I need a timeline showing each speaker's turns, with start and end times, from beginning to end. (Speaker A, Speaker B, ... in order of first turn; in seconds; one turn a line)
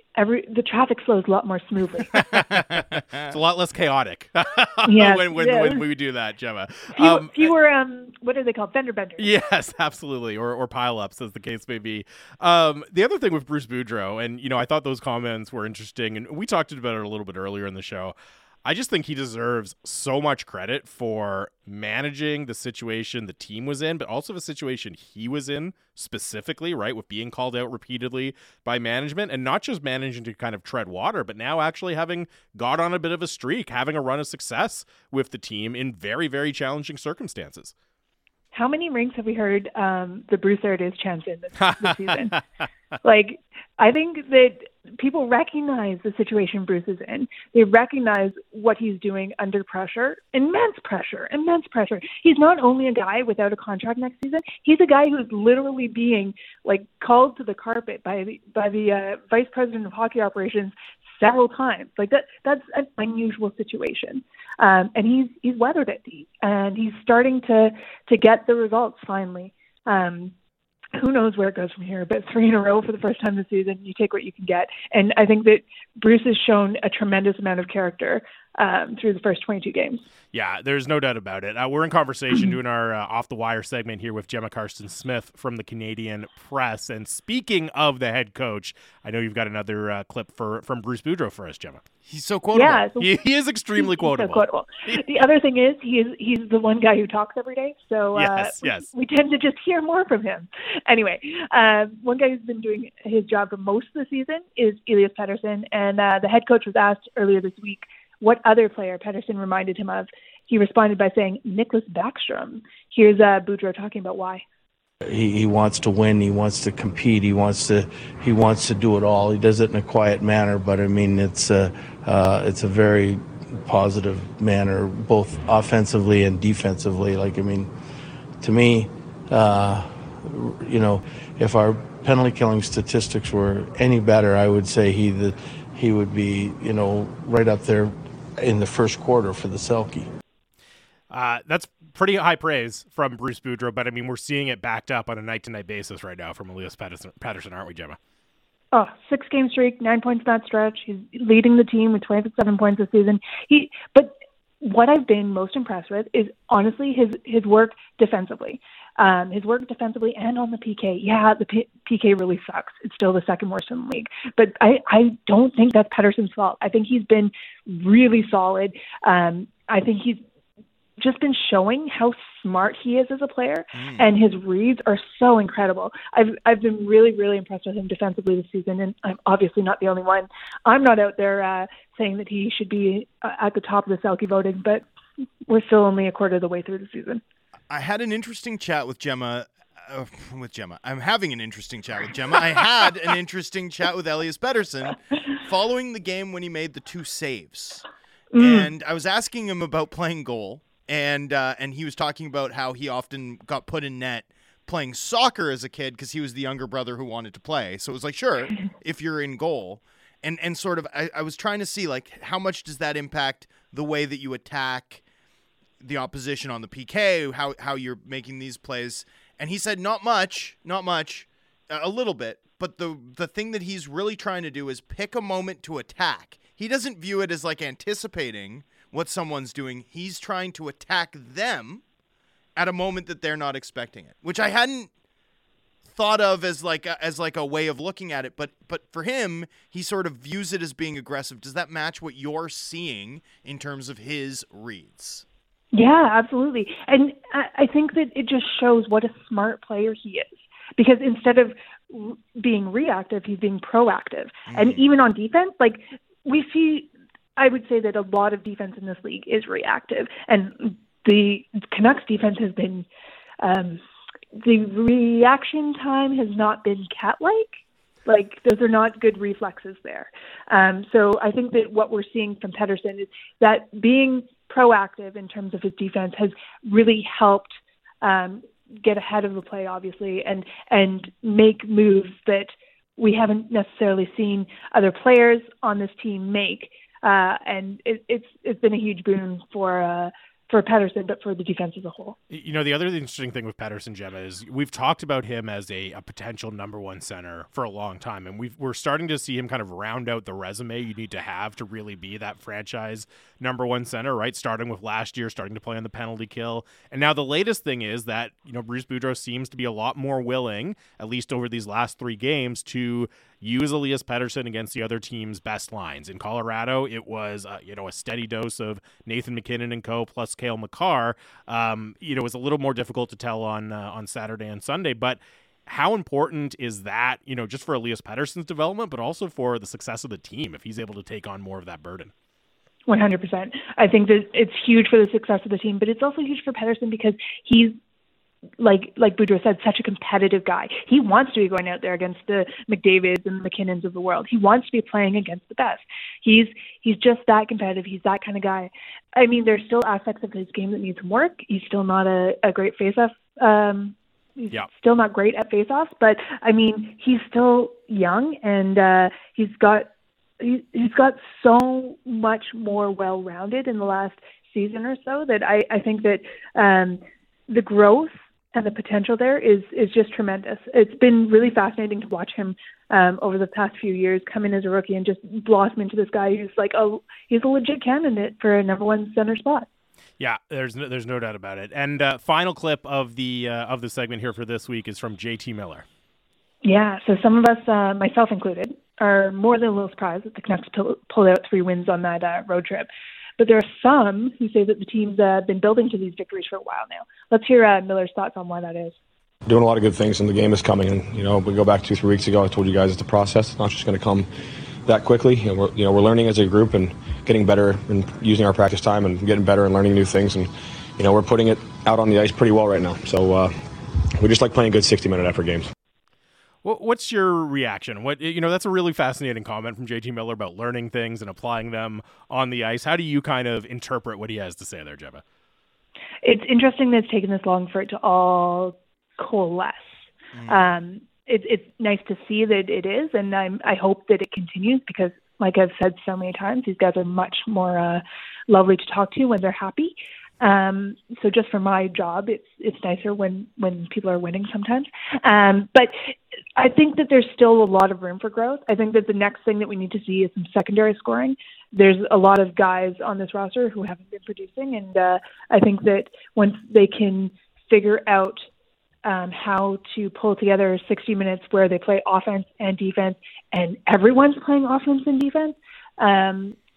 Speaker A: 0.1-2.3
Speaker B: 2.2-7.5
Speaker C: 2.5-3.3
Speaker A: 4.9-5.8
Speaker A: 7.0-9.3
Speaker B: 9.2-37.7
Speaker A: 38.5-42.4
Speaker B: 41.6-42.4
Speaker A: 43.0-70.3
Speaker A: 70.9-80.0
Speaker B: 80.3-91.8
Speaker C: 92.0-92.8
Speaker A: 92.5-93.2
Speaker B: 93.0-95.0
Speaker A: 93.8-114.4
Speaker B: 98.1-98.9
Speaker D: 115.0-127.7
Speaker D: 128.4-140.1
Speaker B: 141.1-148.0
Speaker A: 148.7-170.2
Speaker A: 171.0-184.8
Speaker C: 173.8-174.1
Speaker A: 185.5-187.2
Speaker C: 187.7-197.8
Speaker A: 198.3-198.7
Speaker C: 198.4-215.0
Speaker C: 215.8-231.8
Speaker C: 232.6-234.9
Speaker C: 235.8-245.2
Speaker A: 245.7-262.9
Speaker C: 254.5-254.8
Speaker A: 263.4-263.8
Speaker A: 264.3-267.5
Speaker A: 268.1-292.2
Speaker B: 292.3-332.1
Speaker A: 332.9-337.8
Speaker A: 338.6-379.7
Speaker B: 380.2-385.8
Speaker A: 386.6-398.9
Speaker E: 399.5-404.3
Speaker E: 404.9-415.7
Speaker B: 416.6-425.2
Speaker A: 426.2-429.9
Speaker C: 430.3-430.7
Speaker A: 430.4-446.0
Speaker A: 446.6-458.4
Speaker A: 459.0-466.6